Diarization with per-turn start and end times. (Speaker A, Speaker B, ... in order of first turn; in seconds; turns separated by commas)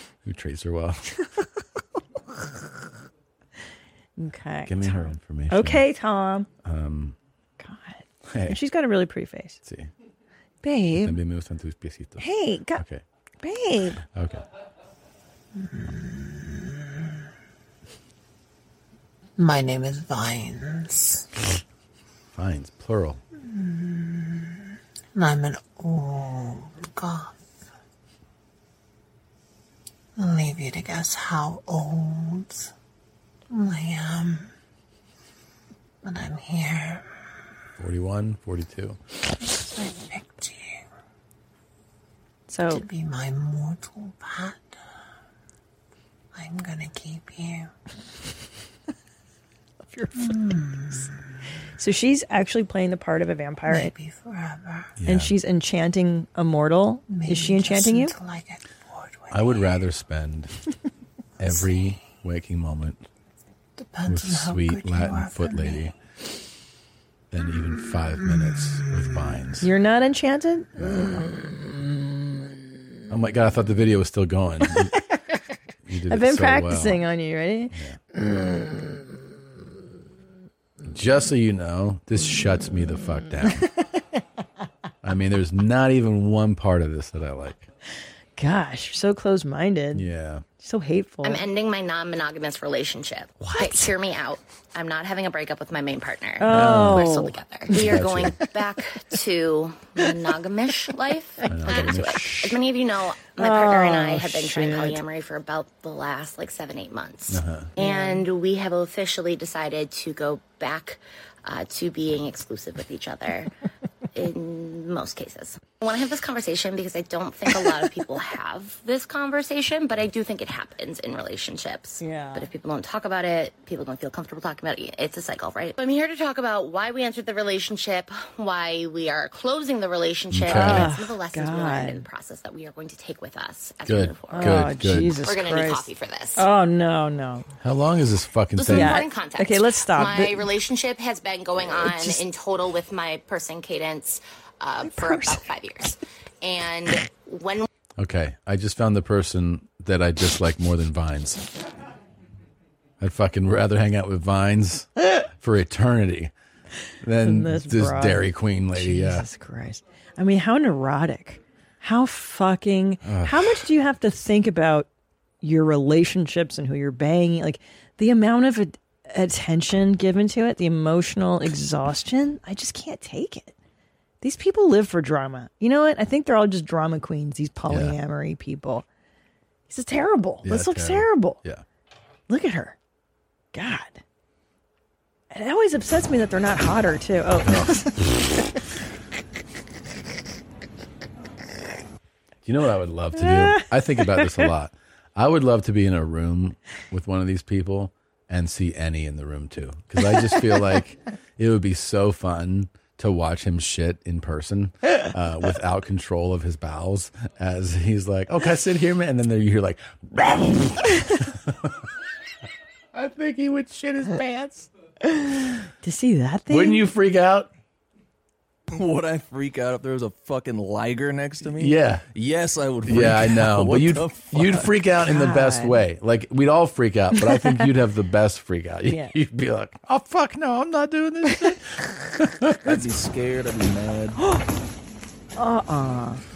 Speaker A: 0.2-1.1, Speaker B: 4.2-6.5, Speaker A: 4.7-5.8, Speaker A: 6.6-7.2, Speaker B: 7.6-9.6, Speaker A: 8.3-8.6, Speaker A: 9.6-9.9, Speaker B: 10.6-11.2, Speaker A: 11.0-12.2, Speaker B: 12.2-12.8, Speaker A: 12.8-13.0, Speaker B: 13.4-14.0, Speaker A: 14.1-14.4, Speaker C: 15.6-17.2, Speaker C: 19.4-21.3, Speaker A: 22.4-23.2, Speaker C: 23.4-27.5, Speaker C: 30.2-32.7, Speaker C: 33.5-34.5, Speaker C: 36.0-37.3, Speaker A: 37.8-39.0, Speaker C: 39.3-40.9, Speaker B: 42.5-42.8, Speaker C: 42.7-44.8, Speaker C: 46.4-47.7, Speaker B: 49.9-50.3, Speaker C: 50.2-51.2, Speaker B: 51.8-53.9, Speaker C: 53.7-55.0, Speaker A: 55.0-55.3, Speaker B: 55.0-58.1, Speaker C: 57.1-59.8, Speaker A: 59.3-60.5, Speaker A: 61.4-63.1, Speaker C: 61.4-62.0, Speaker C: 63.8-65.9, Speaker A: 64.1-65.9, Speaker A: 67.3-69.7, Speaker B: 69.6-72.7, Speaker A: 70.8-71.3, Speaker A: 73.1-75.0, Speaker B: 74.6-75.1, Speaker A: 75.8-77.0, Speaker B: 76.1-79.0, Speaker A: 77.7-78.0, Speaker A: 80.9-83.7, Speaker B: 83.4-83.7, Speaker A: 85.0-87.7, Speaker B: 88.4-90.1, Speaker A: 89.9-90.4, Speaker B: 90.6-91.4, Speaker D: 91.2-113.5, Speaker B: 93.4-93.9, Speaker B: 96.4-98.2, Speaker A: 96.5-97.1, Speaker A: 97.7-98.4, Speaker A: 101.5-102.6, Speaker B: 103.4-105.0, Speaker A: 107.3-107.7, Speaker B: 107.8-108.2, Speaker D: 114.1-136.4, Speaker B: 122.0-122.5, Speaker A: 130.3-130.9, Speaker B: 130.5-132.1, Speaker A: 133.9-135.2, Speaker B: 134.3-137.5, Speaker A: 137.6-139.0, Speaker D: 138.6-147.7, Speaker B: 138.7-140.5, Speaker B: 141.7-142.2, Speaker B: 144.8-145.5, Speaker A: 148.0-151.4, Speaker A: 153.0-154.9, Speaker A: 155.4-156.3, Speaker A: 157.0-159.3, Speaker B: 157.2-164.9, Speaker A: 163.0-163.7, Speaker B: 165.4-173.6, Speaker B: 174.2-178.9, Speaker A: 177.7-178.0, Speaker B: 179.7-181.4, Speaker A: 180.4-181.6, Speaker B: 182.3-182.8, Speaker B: 183.5-184.0, Speaker B: 185.3-188.1, Speaker A: 187.4-187.8, Speaker A: 192.4-211.5, Speaker B: 193.2-194.5, Speaker A: 212.9-214.7, Speaker B: 215.0-216.8, Speaker A: 216.5-217.5, Speaker E: 218.7-224.7, Speaker A: 221.6-222.1, Speaker A: 222.8-232.9, Speaker B: 225.1-225.8, Speaker B: 227.2-227.7, Speaker B: 228.8-229.2, Speaker E: 232.7-234.2, Speaker B: 234.2-234.5, Speaker B: 235.4-236.2